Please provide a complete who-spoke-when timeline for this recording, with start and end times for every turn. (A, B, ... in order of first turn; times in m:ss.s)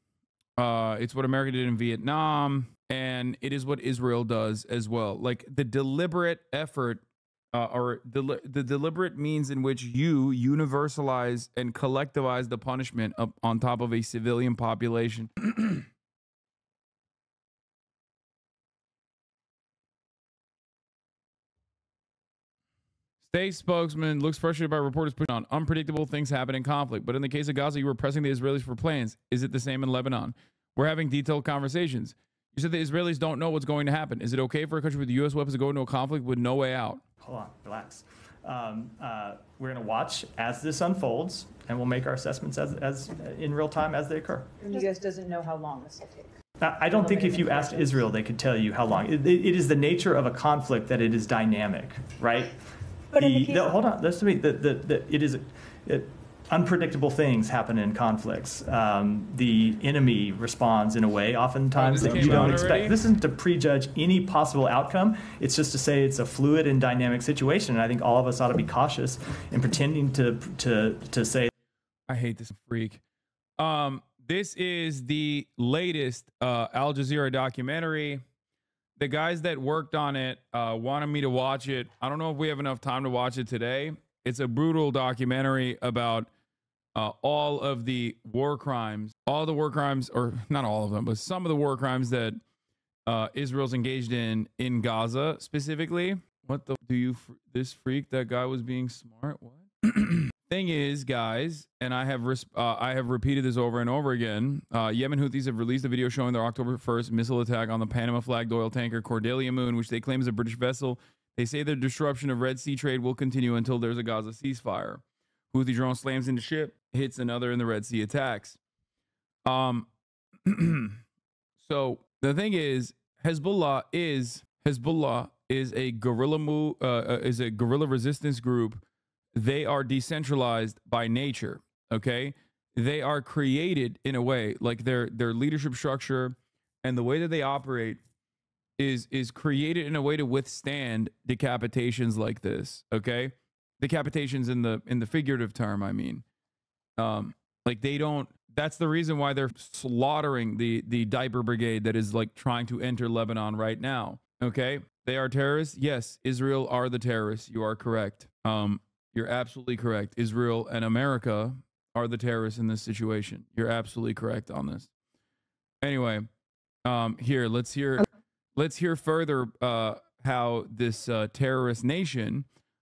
0:00.6-0:15.8 A
0:23.3-0:37.0 A
0:37.2-0:44.6 B
0:44.6-0:46.3 C
0:46.6-0:52.6 B
0:46.9-0:48.1 C
0:53.1-1:11.5 B
0:53.2-0:53.7 C
1:01.8-1:03.0 A
1:12.1-1:13.0 A
1:13.6-1:18.2 A
1:19.0-1:26.3 A
1:27.0-1:32.4 A
1:33.1-1:58.6 A
1:59.4-1:59.9 A
2:00.5-2:01.0 A
2:01.6-2:08.8 A
2:09.4-2:18.0 A
2:18.8-2:26.2 A
2:27.0-2:44.9 A
2:45.8-2:46.3 A
2:46.8-2:52.5 A